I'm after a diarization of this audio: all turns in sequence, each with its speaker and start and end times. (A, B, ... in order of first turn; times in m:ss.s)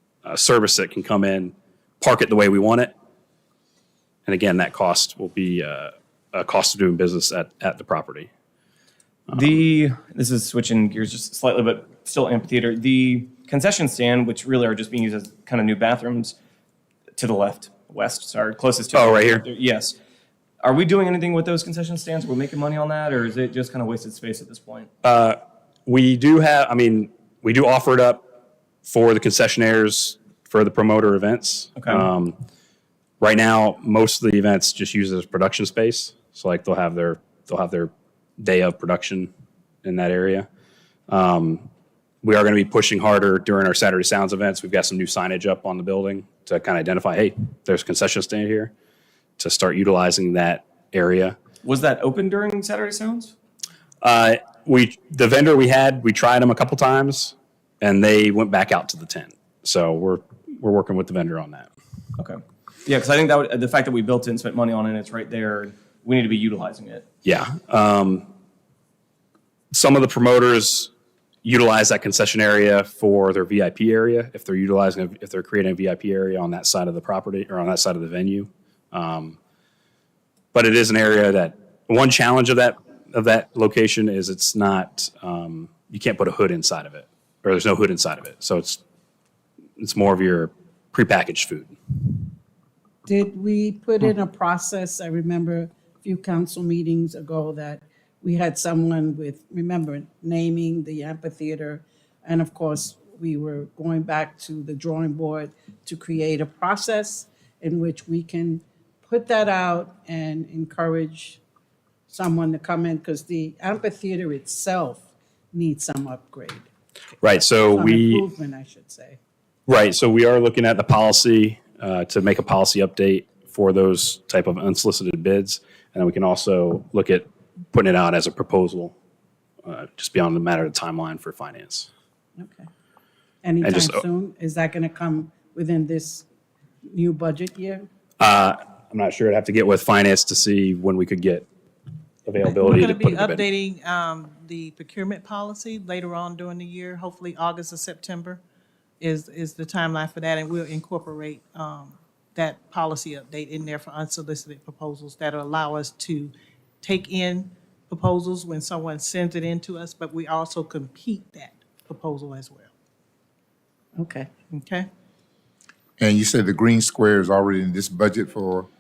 0:00.2-0:02.9 A
0:04.3-0:08.3 A
0:09.3-0:16.4 B
0:17.2-0:20.0 B
0:18.9-0:19.4 A
0:20.6-0:24.9 B
0:25.0-0:28.2 A
0:28.8-0:32.4 A
0:31.8-0:32.0 B
0:33.2-0:39.3 A
0:39.8-0:40.5 A
0:41.1-0:41.7 A
0:42.2-0:48.7 A
0:49.4-0:51.4 A
0:51.6-0:53.3 B
0:54.0-1:01.7 A
1:02.2-1:07.1 B
1:07.2-1:08.3 A
1:09.7-1:10.9 A
1:11.4-1:19.4 A
1:20.5-1:28.8 A
1:29.8-1:31.8 A
1:33.1-1:51.4 C
1:52.1-1:56.6 C
1:57.2-1:58.2 A
1:57.7-1:59.2 C
1:59.7-2:09.0 A
2:09.7-2:11.9 A
2:12.4-2:12.7 C
2:13.4-2:16.3 C
2:13.6-2:14.0 A
2:16.9-2:17.9 C
2:18.2-2:21.5 A
2:22.3-2:23.4 A
2:22.4-2:28.4 D
2:29.0-2:42.7 D
2:44.0-2:44.3 C
2:44.5-2:44.9 D
2:46.0-2:48.7 E